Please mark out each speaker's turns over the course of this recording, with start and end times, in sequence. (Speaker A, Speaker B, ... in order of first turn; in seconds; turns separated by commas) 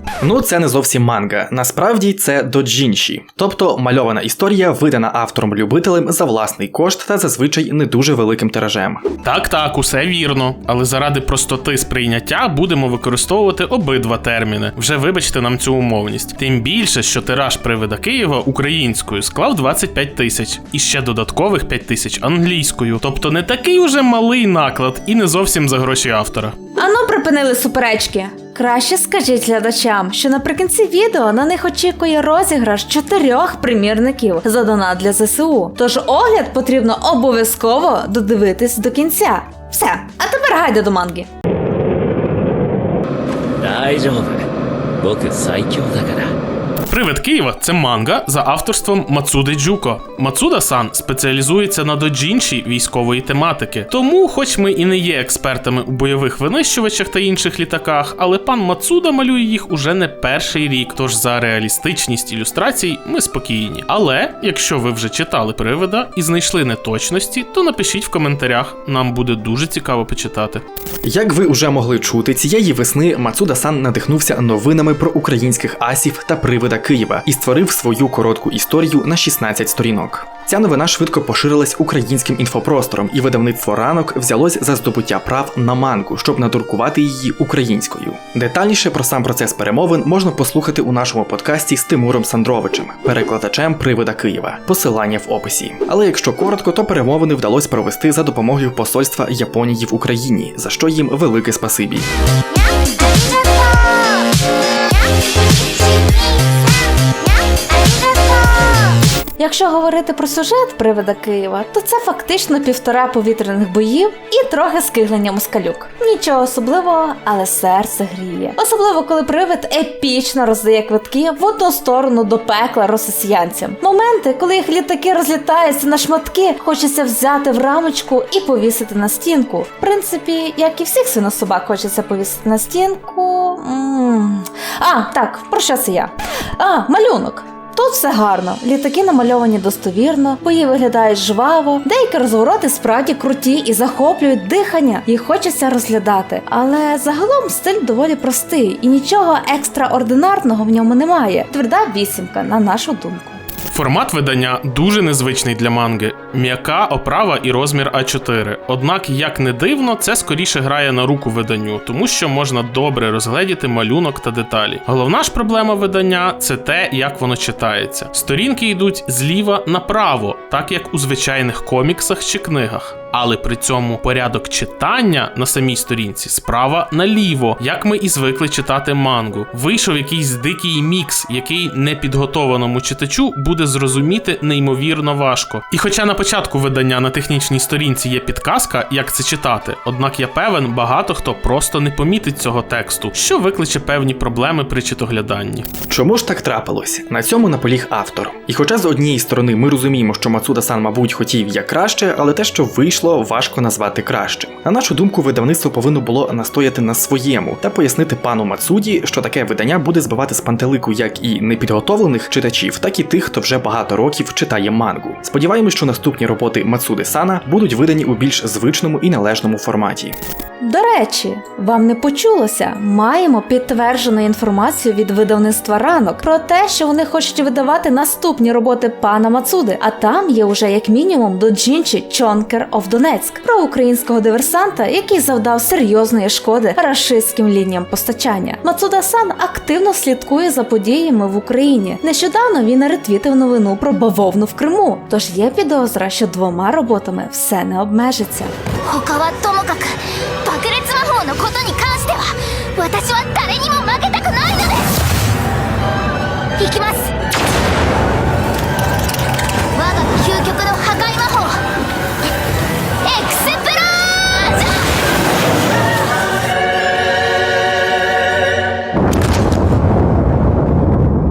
Speaker A: 0.2-9.0, Speaker B: 9.2-26.6, Speaker C: 26.8-41.3, Speaker D: 43.6-44.5, Speaker D: 45.0-46.3, Speaker B: 46.9-70.6, Speaker A: 71.0-102.1, Speaker E: 102.6-104.3, Speaker E: 105.5-106.6, Speaker E: 107.5-109.0, Speaker C: 109.4-153.4, Speaker B: 153.7-195.7, Speaker A: 195.9-220.2, Speaker C: 220.6-248.5, Speaker E: 248.8-254.9, Speaker E: 256.6-257.1, Speaker E: 259.7-261.6, Speaker E: 263.0-264.8